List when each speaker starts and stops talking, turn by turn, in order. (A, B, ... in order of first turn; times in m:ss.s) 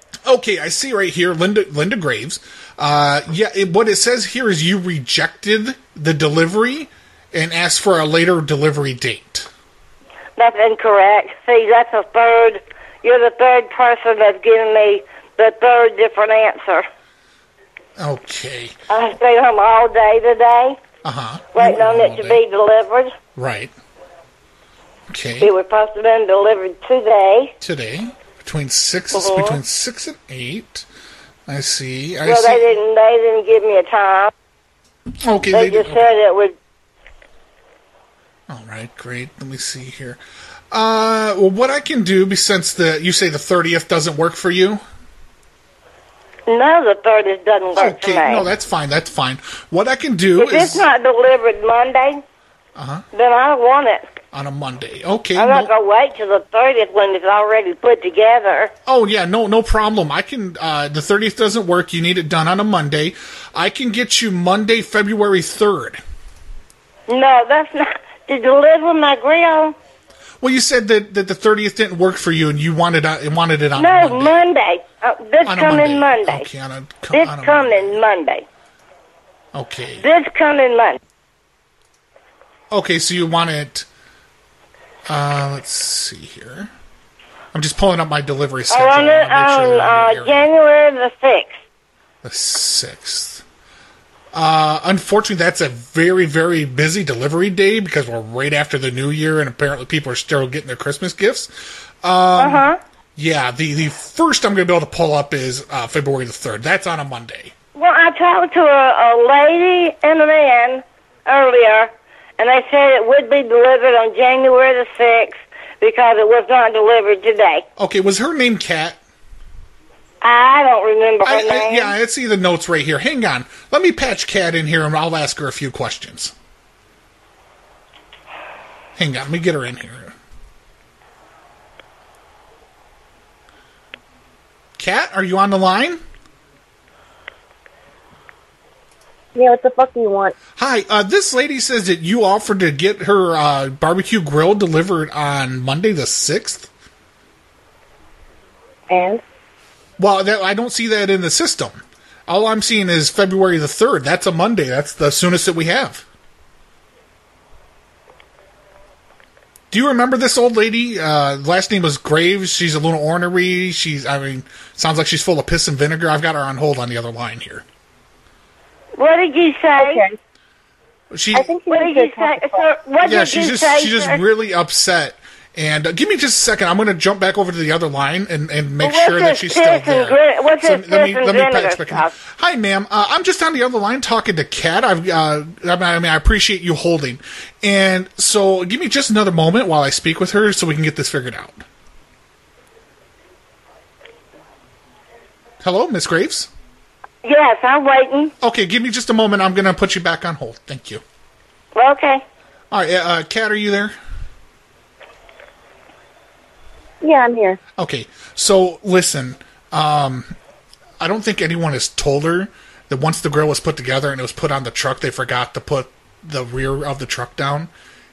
0:00.2-0:09.5 A
0:10.4-0:16.8 B
0:18.0-0:18.7 A
0:18.9-0:20.8 B
0:21.0-0:22.4 A
0:21.5-0:23.1 B
0:23.4-0:23.7 A
0:25.1-0:25.5 A
0:25.4-0:27.5 B
0:27.6-0:30.8 A
0:29.1-0:29.6 B
0:31.5-0:32.6 A
0:32.2-0:34.3 B
0:35.2-0:36.1 A
0:35.5-0:36.5 B
0:38.5-0:40.2 A
0:40.7-0:44.8 A
0:46.5-0:48.4 B
0:47.7-0:50.9 A
0:50.4-0:52.2 B
0:52.8-0:53.0 A
0:53.1-0:54.1 B
0:54.3-0:55.7 A
0:55.3-0:58.7 B
0:58.8-1:06.0 A
1:07.1-1:09.8 B
1:10.4-1:14.3 A
1:13.8-1:16.4 B
1:15.4-1:18.0 A
1:17.1-1:18.4 B
1:19.5-1:20.0 A
1:20.0-1:21.0 B
1:22.7-1:23.9 A
1:25.0-1:26.7 A
1:27.5-1:30.5 A
1:28.7-1:31.6 B
1:32.2-1:33.4 A
1:34.3-1:47.5 A
1:42.4-1:42.8 B
1:47.7-1:57.6 B
1:57.8-1:59.0 A
2:00.2-2:01.9 B
2:01.2-2:06.3 A
2:09.0-2:10.1 A
2:14.8-2:16.0 A
2:19.3-2:20.3 C
2:20.6-2:26.7 A
2:28.9-2:29.2 C
2:30.0-2:36.0 A
2:39.7-2:47.6 A
2:49.0-2:50.0 B
2:49.8-2:50.2 C
2:51.1-2:51.5 A
2:51.3-2:52.6 C
2:51.7-2:54.2 B
2:53.0-3:11.6 A
2:58.8-3:02.1 B
3:15.6-3:16.5 A
3:17.2-3:18.3 B
3:18.4-3:21.0 A
3:21.7-3:22.2 B
3:22.7-3:23.9 A
3:27.0-3:27.6 C
3:27.8-3:30.3 A
3:31.0-3:37.7 A